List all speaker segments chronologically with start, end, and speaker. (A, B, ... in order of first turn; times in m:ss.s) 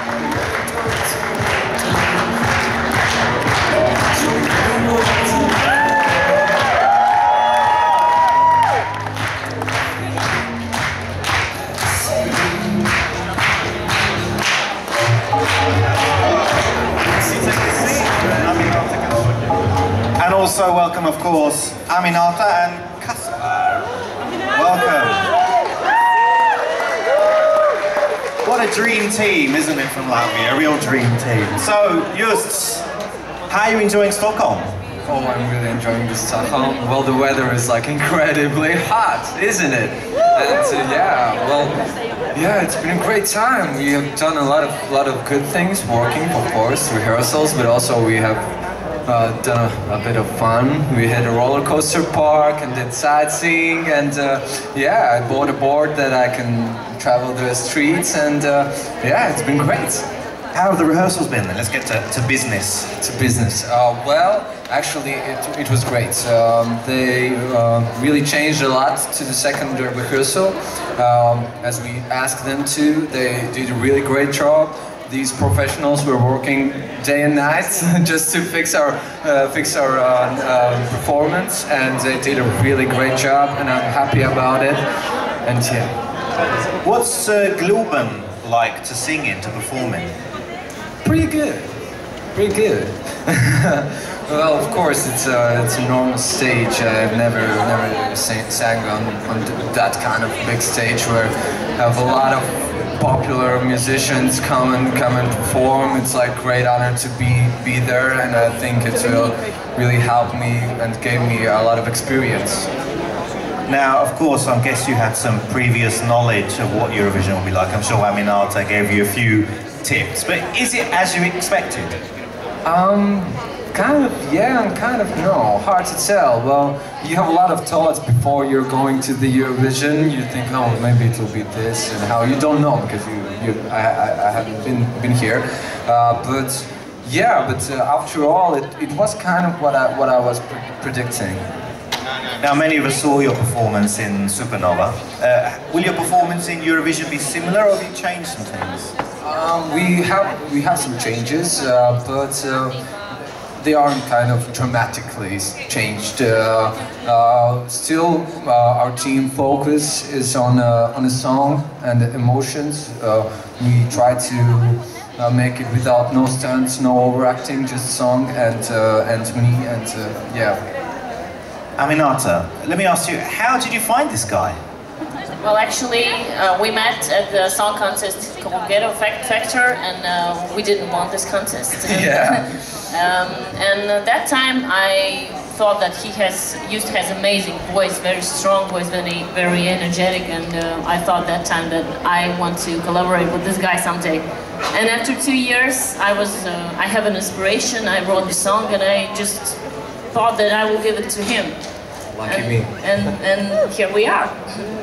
0:04.3-0:05.8 A
0:17.1-0:19.4 B
0:20.2-0:23.9 B
0:24.5-0:25.3 B
0:28.4-0:32.9 B
0:33.5-0:34.7 B
0:35.1-0:41.8 A
0:42.3-0:48.5 A
0:49.1-1:00.1 A
1:00.5-1:02.9 B
1:03.0-1:24.8 A
1:25.4-1:25.9 A
1:26.8-1:30.1 B
1:31.0-1:31.8 A
1:32.3-1:52.7 A
1:53.7-2:02.0 B
2:02.6-2:21.4 A
2:22.4-2:28.9 B
2:29.2-2:32.8 A
2:33.6-2:50.6 A
2:51.8-2:54.6 B
2:55.4-3:19.6 C
3:01.8-3:02.6 A
3:20.1-3:21.6 C
3:22.2-3:22.7 A
3:22.3-3:24.7 C